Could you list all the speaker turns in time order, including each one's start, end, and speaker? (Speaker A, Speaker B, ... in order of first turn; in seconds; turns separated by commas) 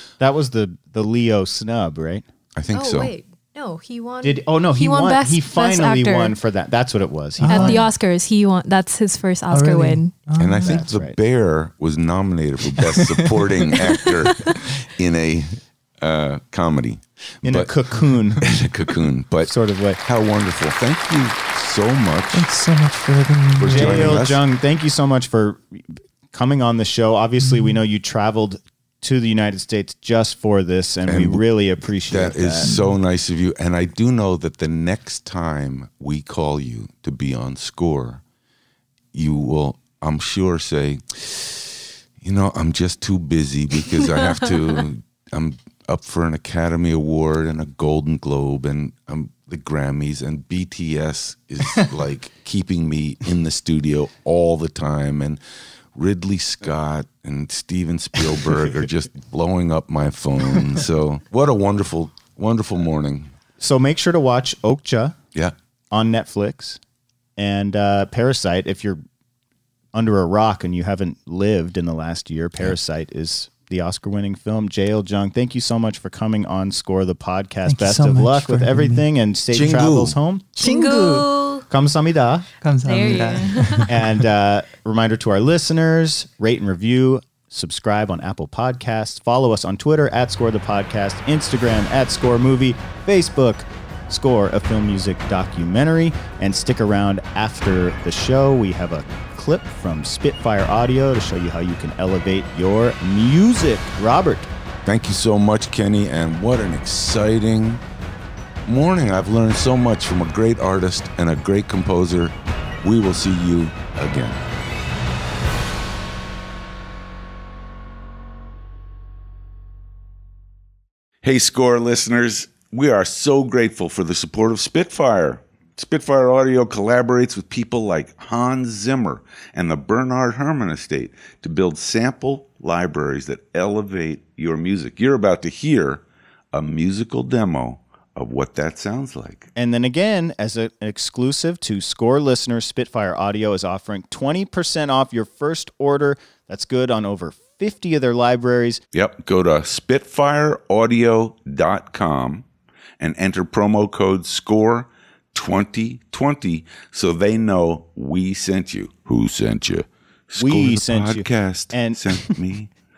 Speaker A: 0.2-2.3, Speaker B: 2.5-3.1, Speaker C: 2.7-6.4, Speaker A: 4.2-7.9, Speaker D: 7.4-7.9, Speaker C: 7.5-10.2, Speaker D: 9.5-10.9, Speaker B: 10.4-17.7, Speaker A: 10.6-11.2, Speaker D: 12.9-13.5, Speaker A: 17.4-18.6, Speaker B: 18.4-22.5, Speaker A: 19.4-20.0, Speaker D: 22.3-24.2, Speaker B: 23.6-24.4, Speaker A: 23.7-32.7, Speaker D: 27.4-27.8, Speaker B: 31.1-31.4, Speaker B: 32.1-38.2, Speaker D: 32.6-33.0, Speaker B: 39.1-55.4, Speaker B: 56.0-63.3, Speaker A: 63.6-65.2, Speaker A: 65.9-66.8, Speaker A: 67.4-69.0, Speaker A: 69.9-80.5, Speaker D: 77.7-79.1, Speaker B: 79.5-80.2, Speaker C: 80.6-81.6, Speaker D: 80.6-81.5, Speaker A: 81.7-82.5, Speaker D: 82.6-83.9, Speaker C: 82.8-83.8, Speaker A: 83.9-104.5, Speaker B: 104.9-107.8, Speaker B: 108.7-114.5, Speaker B: 121.2-139.5, Speaker A: 139.6-148.8, Speaker B: 148.9-152.4, Speaker B: 153.0-162.7, Speaker A: 160.4-162.3